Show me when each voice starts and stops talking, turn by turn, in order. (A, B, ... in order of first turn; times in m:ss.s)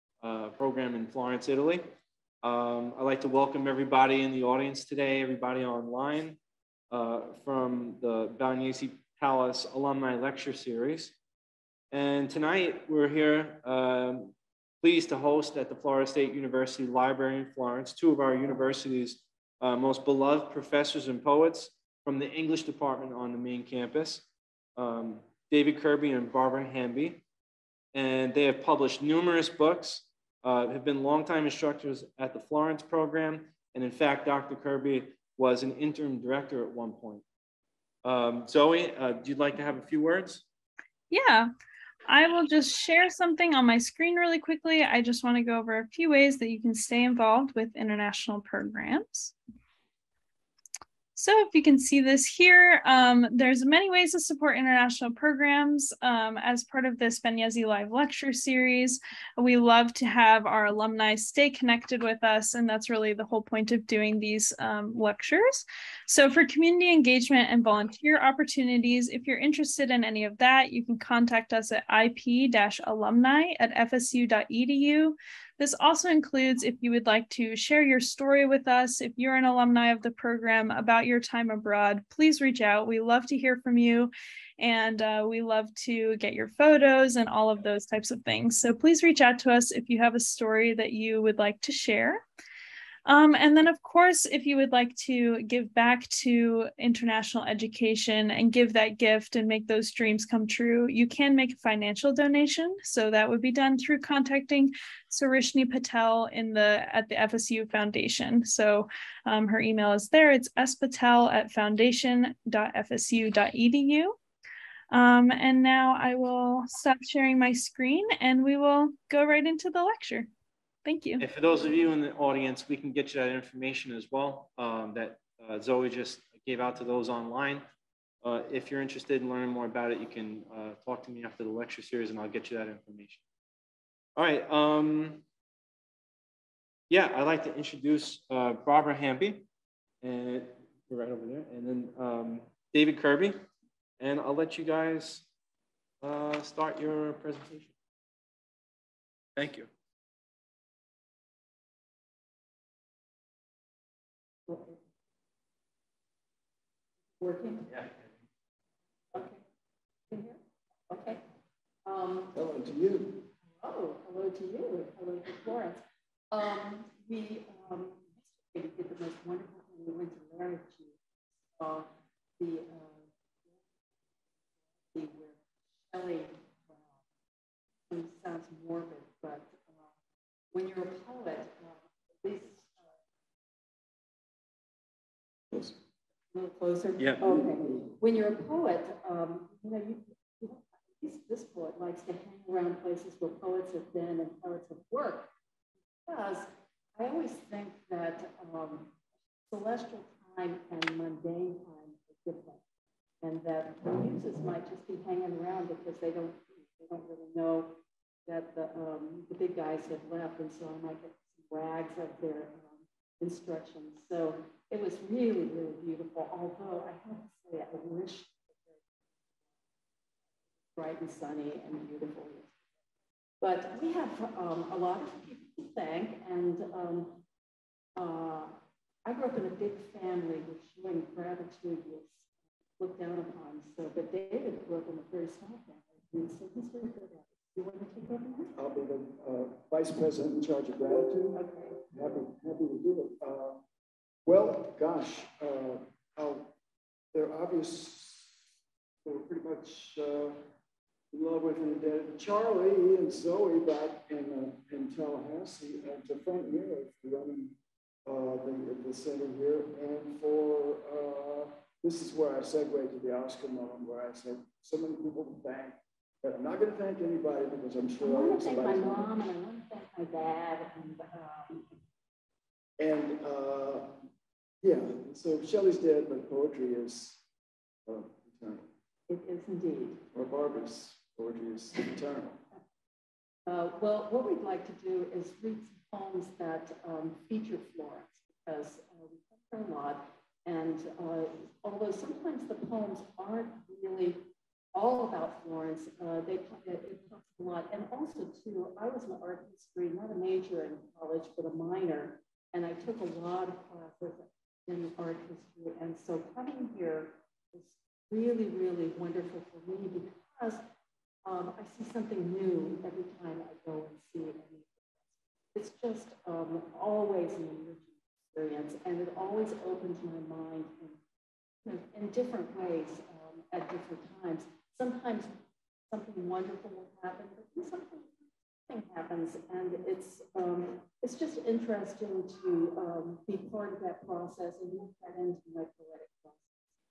0:00.2-0:01.9 A
0:02.4-0:06.4 A
0:06.9-0:11.1 A
0:11.9-0:27.2 A
0:27.9-0:37.2 A
0:38.0-0:40.4 A
0:41.1-0:41.5 B
0:42.1-0:49.3 B
0:51.2-1:32.2 B
1:33.1-1:54.2 B
1:54.9-2:00.3 B
2:00.8-2:01.2 B
2:01.2-2:07.7 A
2:08.2-2:13.2 A
2:14.2-2:15.2 A
2:16.9-2:19.5 A
2:20.0-2:23.5 A
2:24.0-2:25.2 A
2:26.0-2:27.7 A
2:29.4-2:29.7 A
2:34.5-2:34.8 C
2:37.2-2:37.7 C
2:39.1-2:39.4 C
2:40.1-2:41.2 C
2:41.9-2:42.3 C
2:42.3-2:43.3 D
2:43.6-2:51.0 C
2:51.6-2:51.9 C
2:52.4-2:53.0 C
2:54.9-2:56.8 C
2:57.9-2:59.8 C
3:00.5-3:02.8 C
3:06.3-3:15.3 C
3:07.2-3:07.8 D
3:16.1-3:19.0 C
3:19.5-3:22.6 C
3:23.2-3:38.8 C
3:40.8-3:42.6 C
3:43.4-3:47.2 C
3:48.0-3:52.3 C
3:52.8-3:58.5 C
3:58.5-4:03.6 D
4:01.3-4:01.8 C
4:04.2-4:06.5 D
4:07.1-4:08.4 D
4:09.0-4:10.4 D
4:11.1-4:29.1 D
4:28.0-4:31.6 C
4:32.8-4:34.0 D
4:34.6-4:37.2 D
4:37.8-4:38.7 D
4:39.1-4:40.1 C
4:40.1-4:42.4 D
4:43.4-5:10.6 C
5:11.2-5:14.8 C
5:15.5-5:21.0 C
5:21.6-5:36.5 C